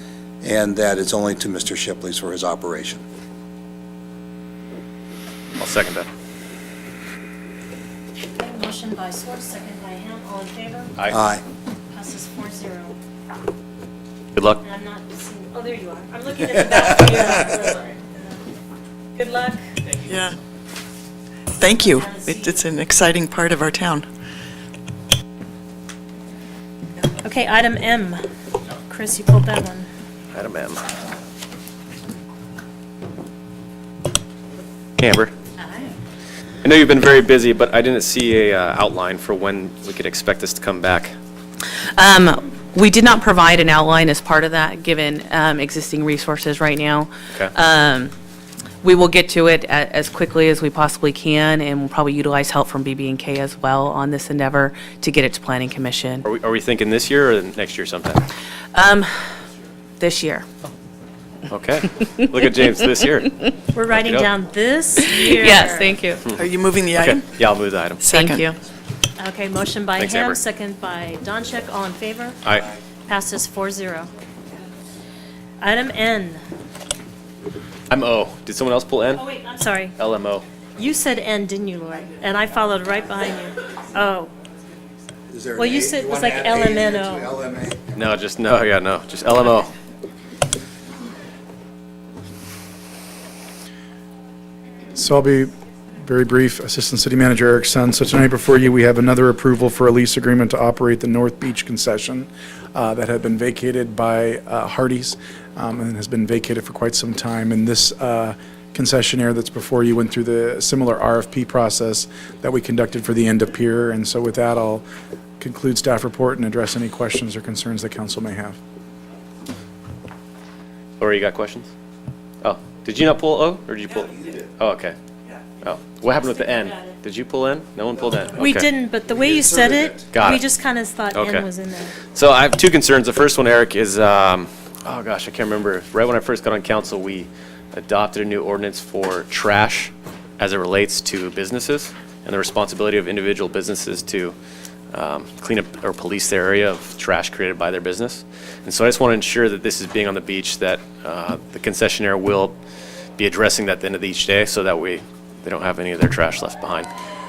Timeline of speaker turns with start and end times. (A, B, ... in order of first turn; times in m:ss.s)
0:00.4-0:03.0 A
0:05.6-0:06.1 B
0:08.4-0:10.9 C
0:11.1-0:11.4 A
0:11.9-0:13.0 C
0:14.4-0:14.6 B
0:14.6-0:18.3 C
0:19.2-0:19.6 C
0:20.0-0:20.4 D
0:21.6-0:24.1 D
0:21.8-0:22.6 C
0:27.2-0:28.2 C
0:28.8-0:29.9 C
0:30.3-0:30.8 B
0:35.0-0:35.3 B
0:35.6-0:35.9 E
0:36.6-0:41.1 B
0:42.0-0:48.1 E
0:48.8-0:56.3 E
0:56.2-0:58.3 B
0:58.7-0:59.1 E
1:00.0-1:00.5 E
1:01.5-1:03.4 B
1:03.7-1:06.0 C
1:03.9-1:04.3 B
1:05.0-1:06.3 E
1:06.3-1:07.2 D
1:07.0-1:08.1 B
1:08.0-1:08.5 D
1:08.1-1:08.6 E
1:09.2-1:12.4 C
1:10.0-1:10.4 B
1:12.4-1:12.7 B
1:13.1-1:14.1 C
1:15.6-1:16.4 C
1:17.9-1:19.2 B
1:19.2-1:19.9 C
1:20.0-1:20.4 B
1:20.8-1:24.3 C
1:25.3-1:28.2 A
1:25.6-1:27.3 C
1:28.0-1:29.7 B
1:34.9-1:54.8 F
1:55.4-1:58.6 F
2:01.0-2:01.7 B
2:02.4-2:05.0 B
2:05.6-2:08.7 B
2:08.4-2:12.0 C
2:09.3-2:10.0 A
2:10.1-2:10.5 B
2:11.1-2:11.5 B
2:12.1-2:24.4 B
2:24.9-2:32.6 B
2:33.2-2:36.9 B